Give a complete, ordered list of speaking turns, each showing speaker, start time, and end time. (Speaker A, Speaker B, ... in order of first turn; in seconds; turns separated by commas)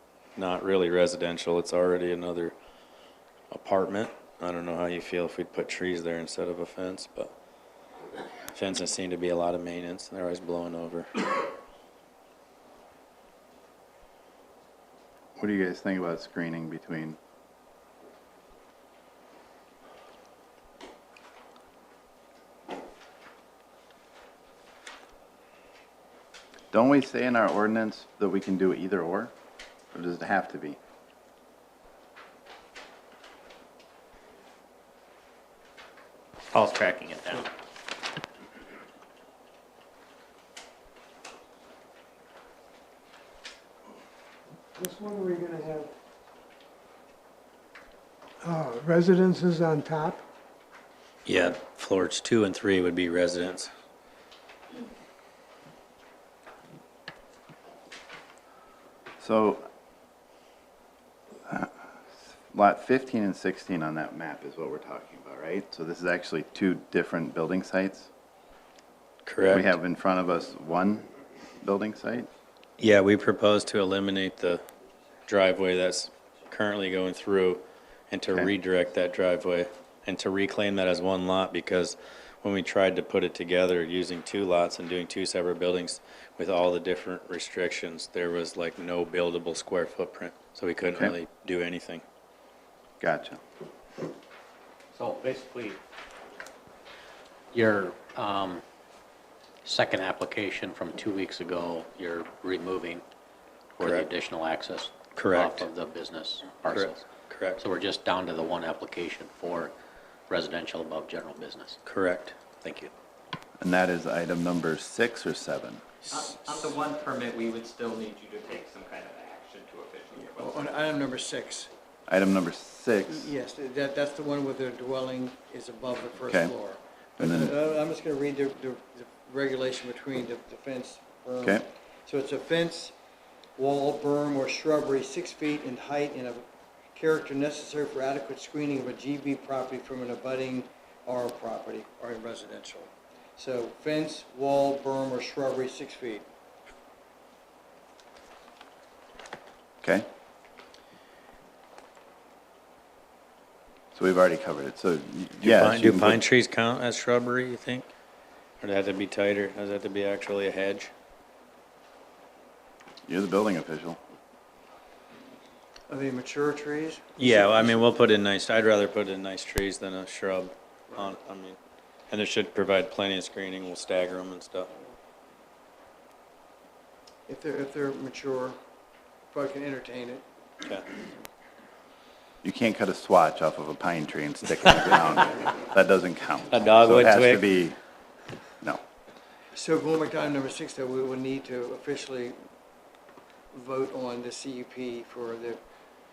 Speaker A: 0.4-2.5, Speaker A: 3.5-7.3, Speaker A: 8.5-11.3, Speaker B: 15.4-17.2, Speaker B: 26.7-29.3, Speaker B: 29.9-30.8, Speaker C: 36.5-37.5, Speaker D: 44.8-45.9, Speaker D: 48.4-50.2, Speaker A: 51.2-53.7, Speaker B: 59.2-59.6, Speaker B: 62.5-68.1, Speaker A: 69.2-69.7, Speaker B: 69.5-71.1, Speaker B: 71.6-72.3, Speaker A: 72.8-74.6, Speaker A: 75.3-92.0, Speaker B: 93.0-93.4, Speaker E: 94.9-95.8, Speaker E: 97.5-98.6, Speaker E: 99.6-103.0, Speaker E: 103.8-107.0, Speaker A: 103.8-104.1, Speaker A: 105.1-105.7, Speaker A: 106.7-107.6, Speaker E: 107.6-109.7, Speaker E: 110.3-111.8, Speaker A: 111.8-112.3, Speaker E: 112.6-112.9, Speaker B: 113.6-115.8, Speaker C: 116.1-120.8, Speaker F: 120.2-121.7, Speaker B: 122.1-123.3, Speaker F: 123.1-132.9, Speaker B: 126.2-126.5, Speaker B: 127.2-127.5, Speaker F: 133.6-136.4, Speaker F: 136.9-146.2, Speaker B: 153.9-156.2, Speaker A: 155.4-157.9, Speaker A: 158.6-160.9, Speaker B: 163.1-164.0, Speaker F: 165.9-167.7, Speaker A: 167.2-171.6, Speaker A: 172.1-174.7, Speaker F: 177.3-178.6, Speaker F: 179.3-180.2, Speaker B: 182.4-187.8, Speaker A: 186.5-187.4, Speaker F: 189.5-192.4, Speaker F: 193.5-195.6